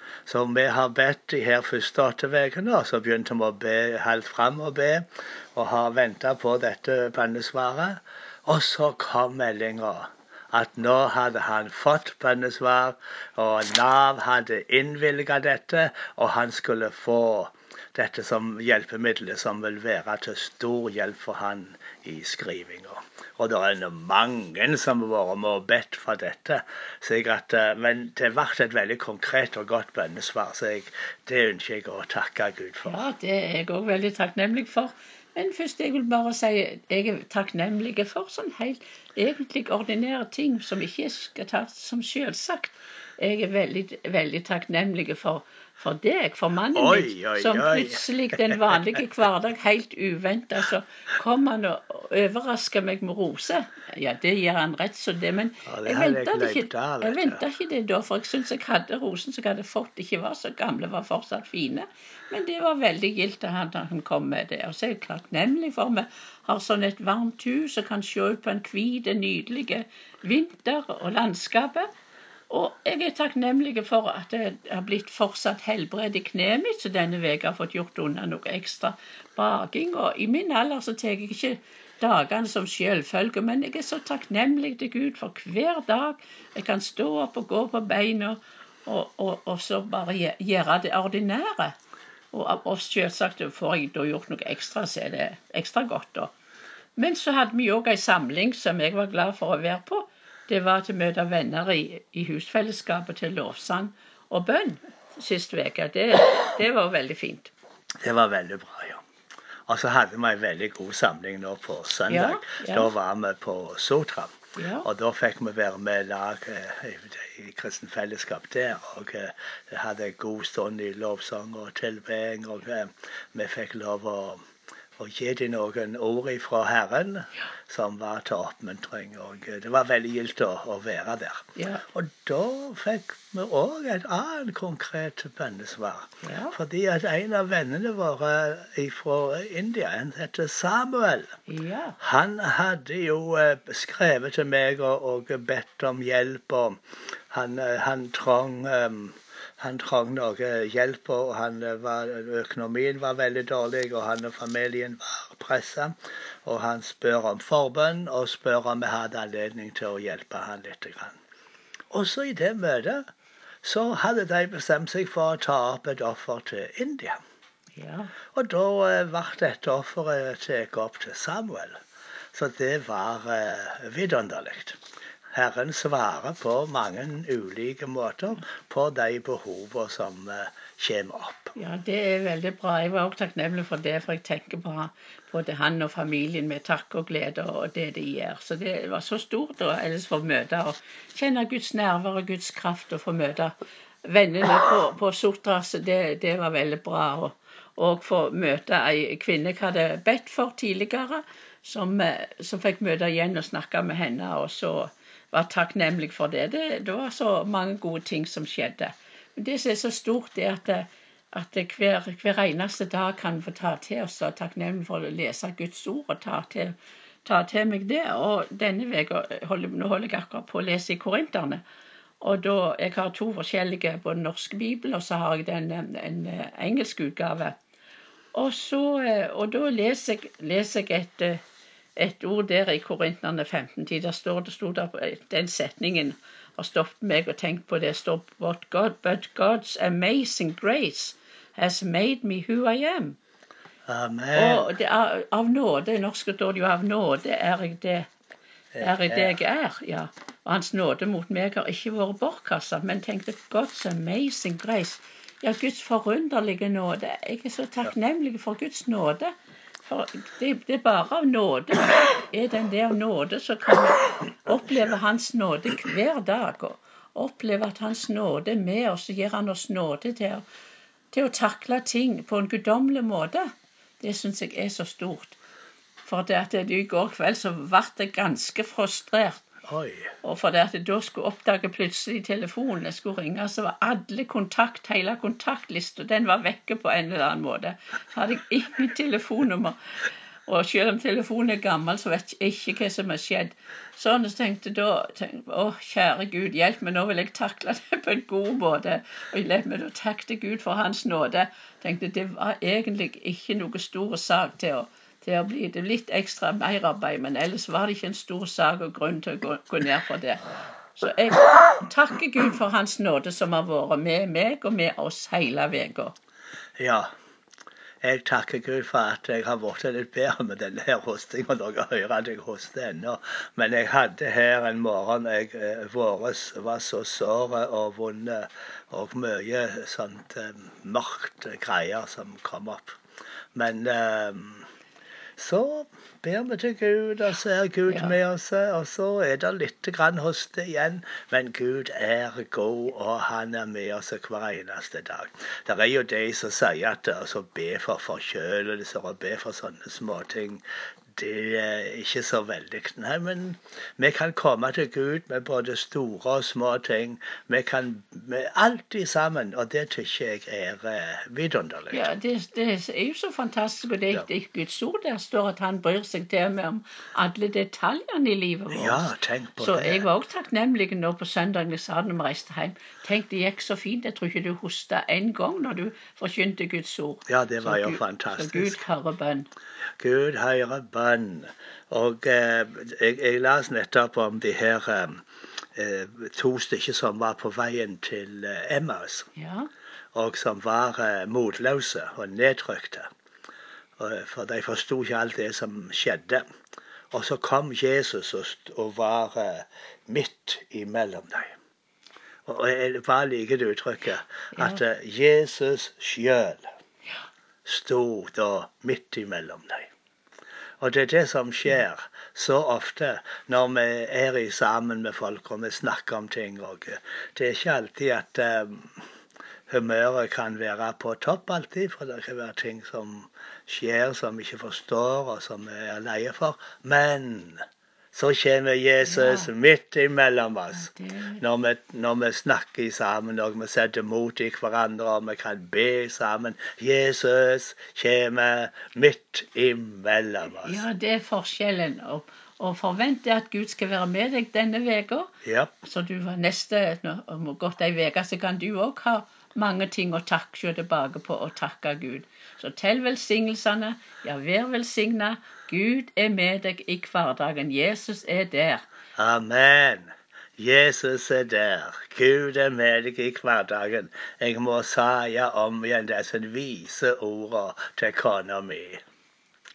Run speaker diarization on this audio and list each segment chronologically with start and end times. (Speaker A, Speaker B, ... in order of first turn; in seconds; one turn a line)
Speaker A: 0.2-33.0
Speaker B: 32.9-71.9
Speaker A: 46.7-48.8
Speaker A: 55.6-57.4
Speaker B: 72.5-91.8
Speaker B: 92.3-96.3
Speaker B: 97.0-107.5
Speaker A: 108.0-109.0
Speaker A: 109.7-124.4
Speaker B: 112.1-112.9
Speaker B: 114.5-114.9
Speaker A: 125.0-141.4
Speaker B: 131.5-131.8
Speaker B: 136.2-136.6
Speaker B: 141.5-141.9
Speaker A: 142.0-146.8
Speaker A: 147.3-161.2
Speaker A: 161.9-163.0
Speaker A: 163.6-167.2
Speaker B: 167.8-168.1
Speaker A: 168.3-171.8
Speaker A: 172.3-174.8
Speaker A: 175.3-181.5
Speaker B: 181.6-193.5
Speaker B: 194.0-221.6
Speaker B: 222.2-227.6
Speaker B: 228.3-231.4
Speaker B: 232.0-243.2
Speaker A: 243.9-244.7
Speaker B: 244.3-248.1
Speaker A: 248.7-249.4
Speaker B: 248.8-259.3
Speaker B: 259.8-270.4
Speaker B: 271.1-273.5
Speaker B: 274.0-275.4
Speaker B: 276.0-279.4
Speaker A: 279.7-280.1
Speaker B: 280.2-289.8
Speaker B: 290.4-310.4
Speaker B: 311.0-316.1
Speaker A: 316.8-317.1
Speaker A: 318.0-333.0
Speaker A: 333.5-334.6
Speaker A: 335.4-362.1
Speaker B: 337.9-338.1
Speaker B: 361.9-379.5
Speaker A: 368.7-370.1
Speaker A: 377.3-378.8
Speaker A: 380.0-389.3
Speaker B: 389.4-389.7
Speaker A: 390.1-393.1
Speaker A: 394.0-396.4
Speaker A: 397.1-401.5
Speaker A: 402.4-406.6
Speaker A: 407.6-409.9
Speaker A: 410.8-419.0
Speaker A: 419.7-440.8
Speaker B: 429.0-429.5
Speaker B: 430.7-431.4
Speaker B: 440.6-458.9
Speaker A: 445.4-445.7
Speaker A: 459.2-469.0